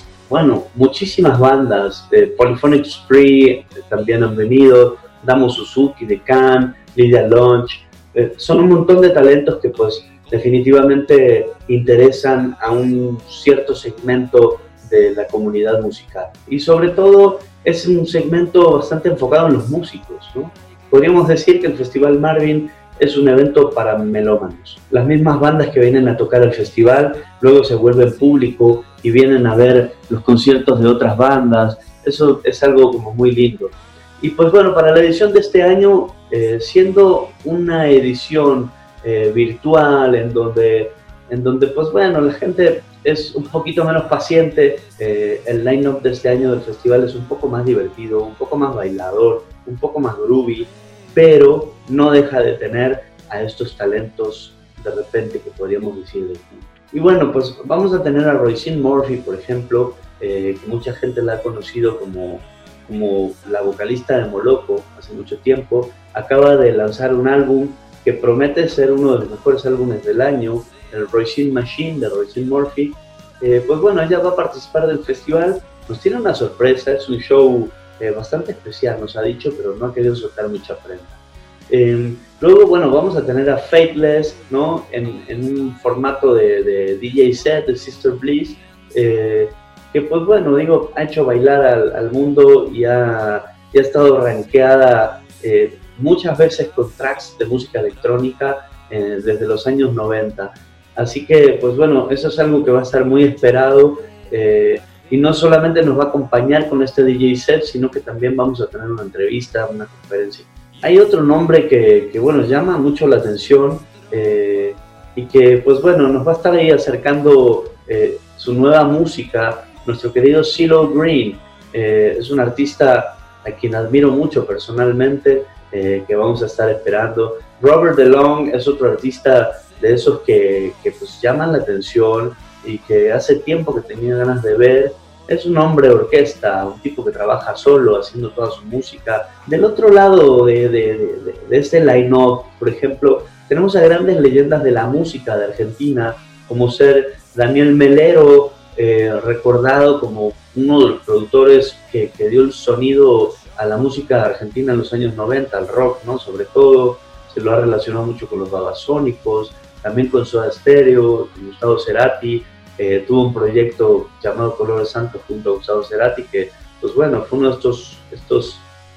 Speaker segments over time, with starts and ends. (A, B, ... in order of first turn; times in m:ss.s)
0:00.3-1:21.2 A
1:21.7-2:48.6 A